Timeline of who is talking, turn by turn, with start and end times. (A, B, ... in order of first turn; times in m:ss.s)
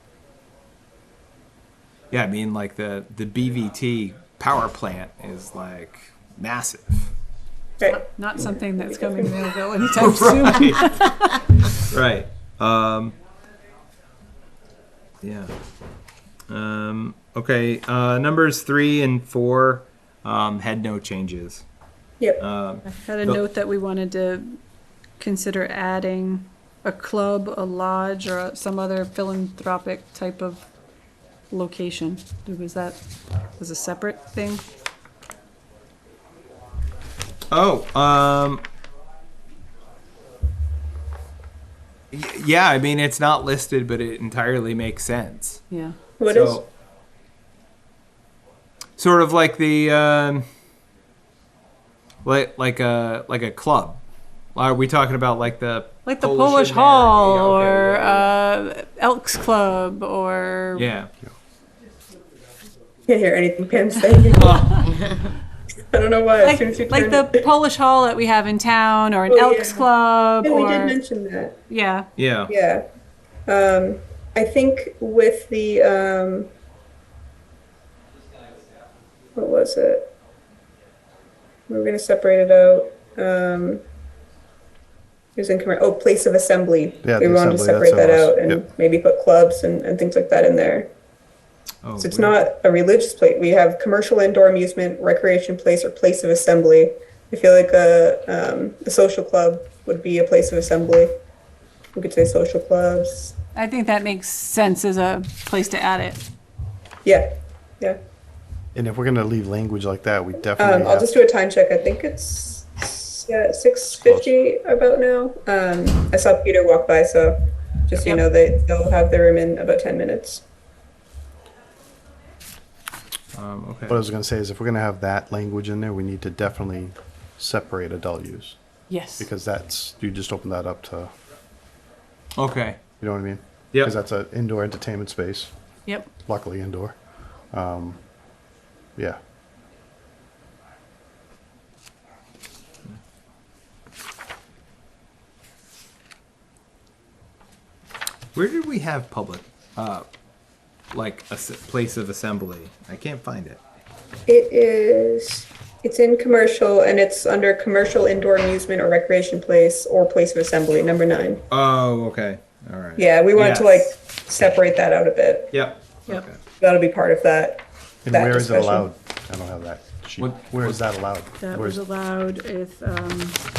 0:02.1-0:07.1 A
0:07.8-0:09.3 B
0:07.9-0:11.3 C
0:09.9-0:10.9 A
0:11.9-0:13.2 A
0:15.2-0:15.5 A
0:16.5-0:21.6 A
0:22.4-0:23.4 A
0:22.8-0:24.6 C
0:25.2-0:30.6 C
0:31.5-0:33.0 C
0:33.6-0:34.6 C
0:37.5-0:38.6 A
0:42.1-0:45.6 A
0:45.7-0:46.0 C
0:46.2-0:46.6 B
0:46.3-0:46.7 A
0:49.0-0:50.4 A
0:52.2-0:54.0 A
0:54.5-0:58.3 A
0:56.0-1:00.9 C
1:00.8-1:01.1 A
1:03.0-1:04.9 B
1:04.4-1:04.9 A
1:05.9-1:07.4 B
1:06.4-1:11.0 C
1:09.3-1:09.9 B
1:10.4-1:11.5 B
1:11.7-1:12.1 C
1:12.2-1:12.5 A
1:12.5-1:12.8 B
1:13.4-1:16.5 B
1:19.3-1:20.1 B
1:21.7-1:23.8 B
1:25.3-1:30.9 B
1:27.0-1:28.6 D
1:31.8-1:32.4 A
1:32.0-1:41.1 B
1:41.9-1:43.3 B
1:43.5-1:46.2 C
1:48.7-1:51.1 D
1:50.6-2:00.4 B
1:54.0-1:54.3 D
2:03.3-2:04.0 A
2:03.9-2:08.6 D
2:08.9-2:09.3 C
2:09.2-2:11.1 D
2:12.4-2:12.8 A
2:13.0-2:15.5 D
2:16.2-2:17.0 D
2:17.5-2:18.0 D
2:28.3-2:30.1 A
2:30.9-2:33.6 A
2:34.3-2:41.4 B
2:41.5-2:43.9 A
2:43.0-2:45.5 B
2:45.5-2:46.4 A
2:46.6-2:48.9 B
2:48.0-2:51.8 D
2:50.2-2:50.8 A
2:51.4-2:53.4 C